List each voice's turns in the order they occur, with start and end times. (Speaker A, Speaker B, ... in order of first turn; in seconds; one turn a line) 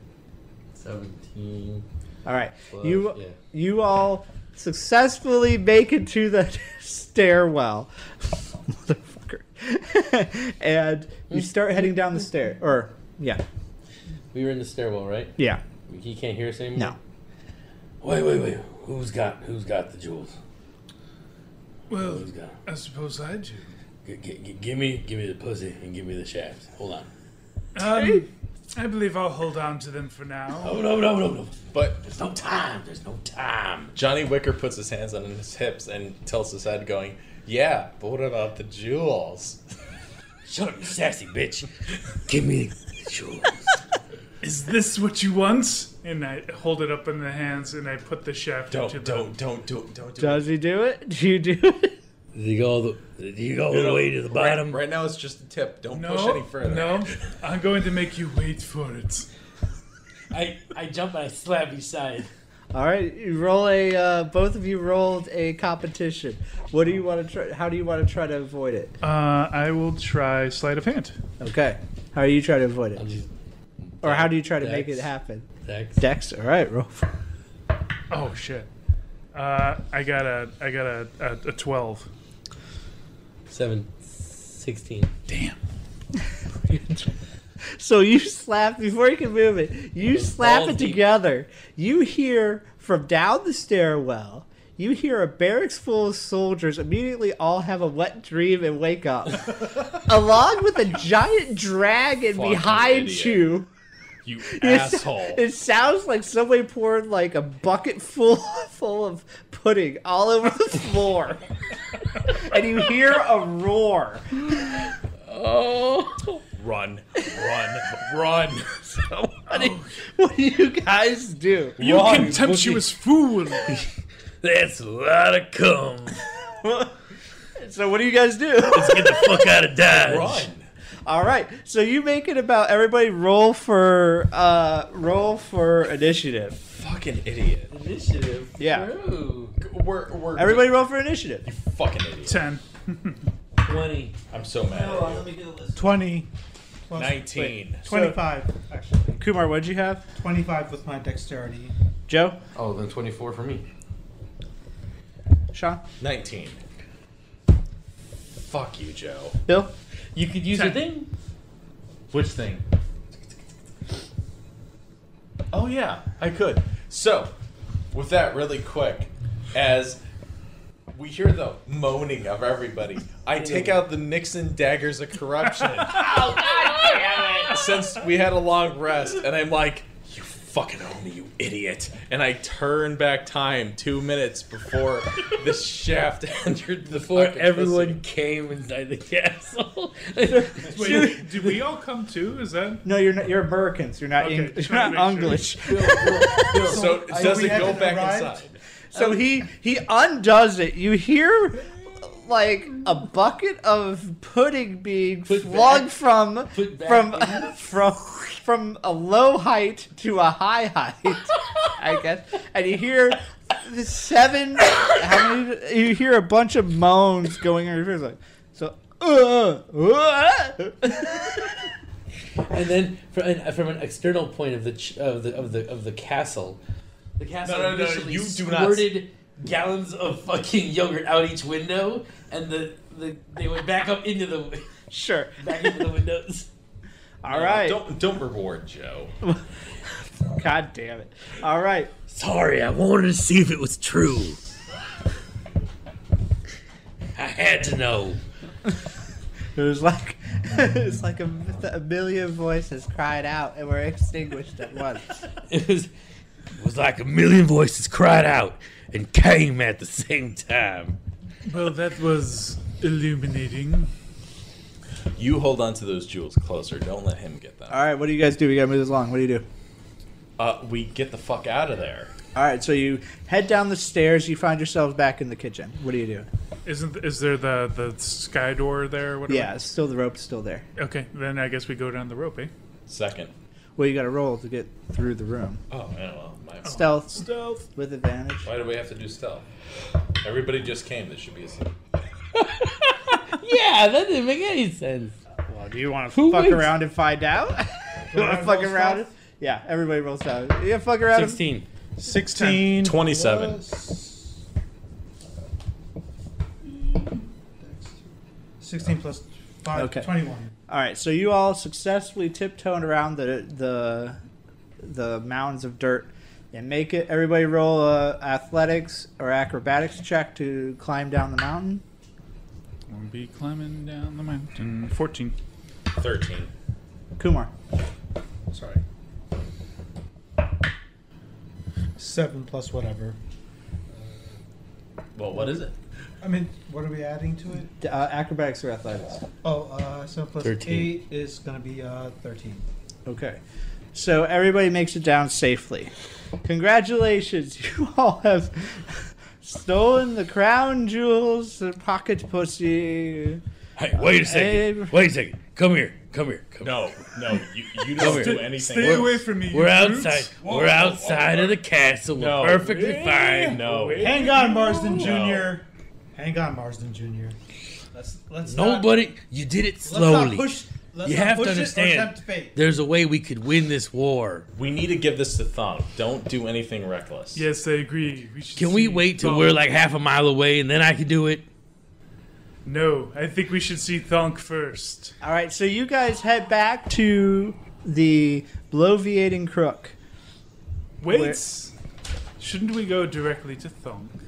Speaker A: 0.7-1.8
Speaker B: 2.2-13.4
Speaker A: 2.7-3.4
Speaker A: 11.3-11.8
Speaker A: 14.3-15.3
Speaker B: 15.4-15.6
Speaker A: 15.9-16.9
Speaker A: 18.0-20.3
Speaker C: 21.9-23.7
Speaker A: 21.9-22.6
Speaker A: 24.0-27.1
Speaker C: 27.7-30.8
Speaker A: 30.6-33.9
Speaker D: 31.7-32.0
Speaker D: 33.9-39.6
Speaker A: 40.5-43.7
Speaker C: 44.4-49.4
Speaker D: 48.7-50.5
Speaker B: 50.2-52.0
Speaker A: 52.3-54.8
Speaker D: 53.7-57.2
Speaker C: 55.9-59.3
Speaker A: 60.3-62.3
Speaker B: 62.7-69.0
Speaker C: 69.0-71.2
Speaker B: 71.4-73.2
Speaker A: 73.0-73.3
Speaker A: 73.8-75.1
Speaker B: 74.0-77.1
Speaker A: 75.6-76.0
Speaker C: 78.1-78.7
Speaker C: 79.3-82.1
Speaker A: 83.5-85.1
Speaker C: 85.3-85.6
Speaker B: 86.6-87.1
Speaker B: 87.7-103.7
Speaker A: 90.1-91.0
Speaker D: 102.3-103.5
Speaker D: 104.2-105.4
Speaker B: 104.5-111.5
Speaker B: 112.3-114.5
Speaker A: 115.2-116.4
Speaker D: 116.5-118.8
Speaker B: 118.9-121.8
Speaker C: 119.5-119.8
Speaker D: 121.8-122.8
Speaker C: 121.8-123.9
Speaker A: 124.4-126.2
Speaker B: 126.4-126.9
Speaker B: 127.5-129.6
Speaker A: 128.7-130.5
Speaker D: 129.8-130.7
Speaker B: 131.1-136.6
Speaker D: 136.7-137.7
Speaker A: 137.7-139.6
Speaker B: 138.6-138.9
Speaker D: 139.6-140.9
Speaker B: 140.3-141.4
Speaker D: 141.4-142.5
Speaker C: 142.2-143.2
Speaker A: 143.6-144.2
Speaker D: 144.3-145.3
Speaker B: 144.7-146.0
Speaker E: 145.8-146.3
Speaker E: 146.9-149.2
Speaker D: 147.0-147.9
Speaker B: 147.4-148.3
Speaker B: 149.2-150.1
Speaker E: 150.1-151.7
Speaker B: 152.1-152.4
Speaker A: 152.5-153.6
Speaker B: 155.5-155.8
Speaker D: 156.0-156.6
Speaker D: 158.3-159.4
Speaker B: 159.5-159.7
Speaker A: 160.1-161.1
Speaker D: 162.1-162.6
Speaker D: 165.5-167.3
Speaker D: 167.9-170.0
Speaker D: 170.9-188.0
Speaker A: 173.4-173.8
Speaker A: 176.0-177.5
Speaker A: 186.4-191.0
Speaker B: 190.3-191.6
Speaker C: 190.6-192.8
Speaker B: 192.8-196.6
Speaker C: 194.2-195.5
Speaker A: 195.6-198.0
Speaker E: 196.6-198.4
Speaker D: 196.6-198.6
Speaker B: 198.9-221.4
Speaker A: 205.3-205.9
Speaker A: 206.5-207.6
Speaker A: 222.5-226.6
Speaker A: 227.2-234.8
Speaker D: 227.4-228.9
Speaker B: 234.9-235.9
Speaker A: 235.4-236.5
Speaker B: 237.2-237.8
Speaker D: 237.3-239.1
Speaker B: 240.3-241.9
Speaker A: 242.1-244.4
Speaker A: 247.2-248.2
Speaker B: 249.5-255.2
Speaker A: 255.5-255.9
Speaker A: 256.6-261.0
Speaker C: 261.4-263.9
Speaker D: 265.2-267.8
Speaker B: 267.7-269.4
Speaker D: 270.4-272.1
Speaker B: 272.3-276.3
Speaker C: 276.6-279.6
Speaker B: 279.3-280.6
Speaker C: 280.8-282.5
Speaker D: 282.9-283.3
Speaker B: 283.8-285.6
Speaker D: 285.7-286.9
Speaker C: 286.6-287.6
Speaker B: 286.7-287.2
Speaker B: 287.7-288.5
Speaker D: 288.4-289.4
Speaker D: 290.2-291.7
Speaker A: 292.3-295.1
Speaker B: 295.4-301.4
Speaker A: 296.1-296.7
Speaker E: 298.1-299.1
Speaker A: 301.1-301.6
Speaker E: 302.0-304.4
Speaker C: 302.0-302.9
Speaker D: 302.8-303.6
Speaker E: 307.6-308.1
Speaker E: 308.6-310.5
Speaker B: 309.7-310.1
Speaker B: 310.7-314.2
Speaker B: 314.8-321.8
Speaker C: 322.9-325.4
Speaker D: 325.9-326.5
Speaker B: 327.2-327.5
Speaker E: 328.5-328.8
Speaker E: 332.0-333.2
Speaker E: 334.0-334.4
Speaker D: 335.1-335.8
Speaker E: 336.2-337.7
Speaker B: 337.8-339.2
Speaker E: 339.4-342.6
Speaker A: 340.4-341.0
Speaker B: 343.1-343.4
Speaker B: 343.9-345.9
Speaker B: 346.4-353.4
Speaker A: 353.8-357.1
Speaker B: 353.9-355.0
Speaker D: 356.6-359.1
Speaker A: 357.9-363.6
Speaker C: 357.9-360.3
Speaker E: 360.4-361.6
Speaker D: 362.1-362.8
Speaker C: 362.4-365.2
Speaker D: 363.5-364.2
Speaker E: 364.0-367.4
Speaker D: 364.9-365.6
Speaker E: 367.9-369.1
Speaker A: 368.4-374.5
Speaker E: 369.8-372.6
Speaker D: 374.6-377.4
Speaker C: 377.3-379.6
Speaker A: 378.6-381.4
Speaker C: 382.6-385.1
Speaker B: 385.2-389.9
Speaker C: 391.0-391.7
Speaker B: 391.1-391.4
Speaker C: 392.4-394.1